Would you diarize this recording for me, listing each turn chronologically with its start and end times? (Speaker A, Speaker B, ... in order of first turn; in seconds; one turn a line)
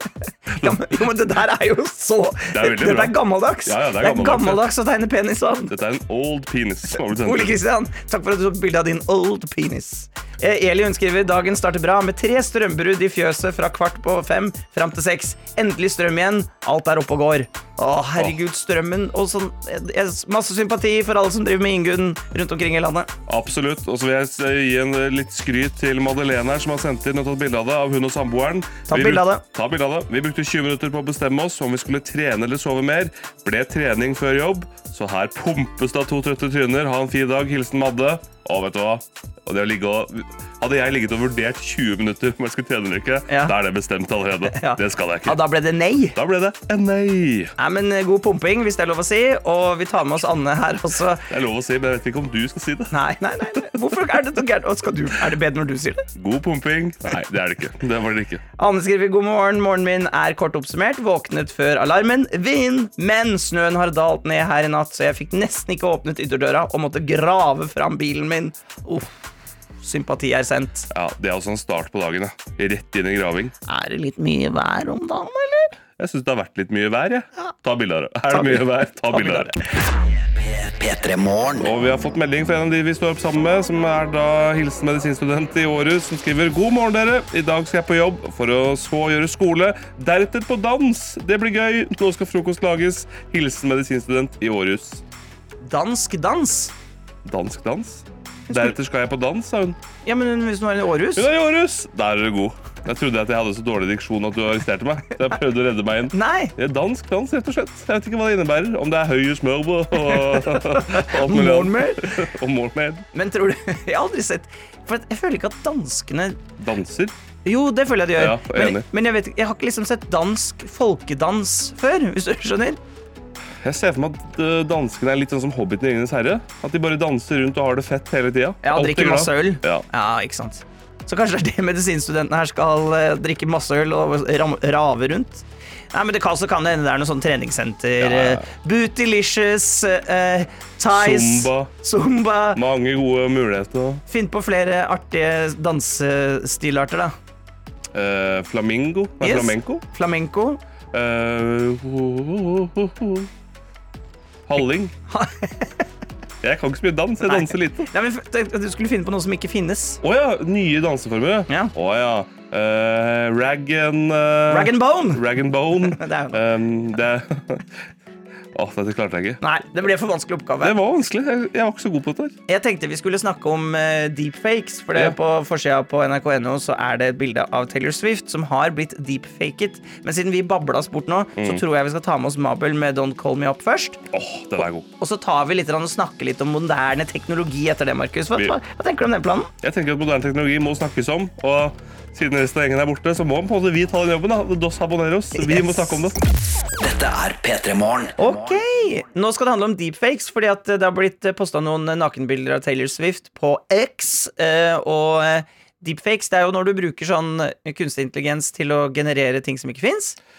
Speaker A: 0.5-5.7
Speaker B: 0.6-0.8
Speaker B: 2.5-4.7
Speaker B: 5.7-7.6
Speaker A: 7.2-23.1
Speaker B: 23.3-45.4
Speaker A: 28.9-29.4
Speaker A: 43.3-43.5
Speaker A: 44.5-46.2
Speaker B: 46.1-47.5
Speaker A: 47.6-51.2
Speaker B: 51.3-52.9
Speaker A: 52.9-56.0
Speaker B: 56.1-58.4
Speaker A: 58.6-69.1
Speaker A: 69.8-70.9
Speaker B: 70.9-73.5
Speaker A: 73.7-75.7
Speaker B: 76.0-79.5
Speaker A: 78.3-79.6
Speaker C: 80.3-81.7
Speaker B: 81.6-95.0
Speaker A: 95.7-96.7
Speaker B: 97.2-99.8
Speaker A: 98.5-98.7
Speaker A: 100.0-101.3
Speaker B: 101.2-113.0
Speaker A: 106.1-106.5
Speaker A: 110.0-112.1
Speaker A: 113.1-116.4
Speaker B: 116.6-117.1
Speaker A: 117.4-122.8
Speaker B: 118.2-118.8
Speaker B: 123.6-129.8
Speaker A: 128.6-142.6
Speaker B: 138.0-138.5
Speaker B: 140.9-141.7
Speaker B: 142.5-144.0
Speaker A: 144.1-147.1
Speaker B: 147.9-149.8
Speaker A: 149.2-150.6
Speaker B: 150.9-153.3
Speaker B: 154.5-154.9
Speaker A: 155.1-155.7
Speaker B: 156.4-157.8
Speaker A: 157.2-160.0
Speaker B: 160.0-167.7
Speaker A: 164.5-165.2
Speaker A: 165.8-166.4
Speaker B: 168.5-169.4
Speaker A: 169.4-170.7
Speaker B: 170.6-172.3
Speaker A: 172.5-184.0
Speaker B: 184.1-184.9
Speaker A: 185.0-189.5
Speaker B: 189.6-196.2
Speaker A: 195.4-195.8
Speaker C: 196.8-198.6
Speaker A: 198.2-210.2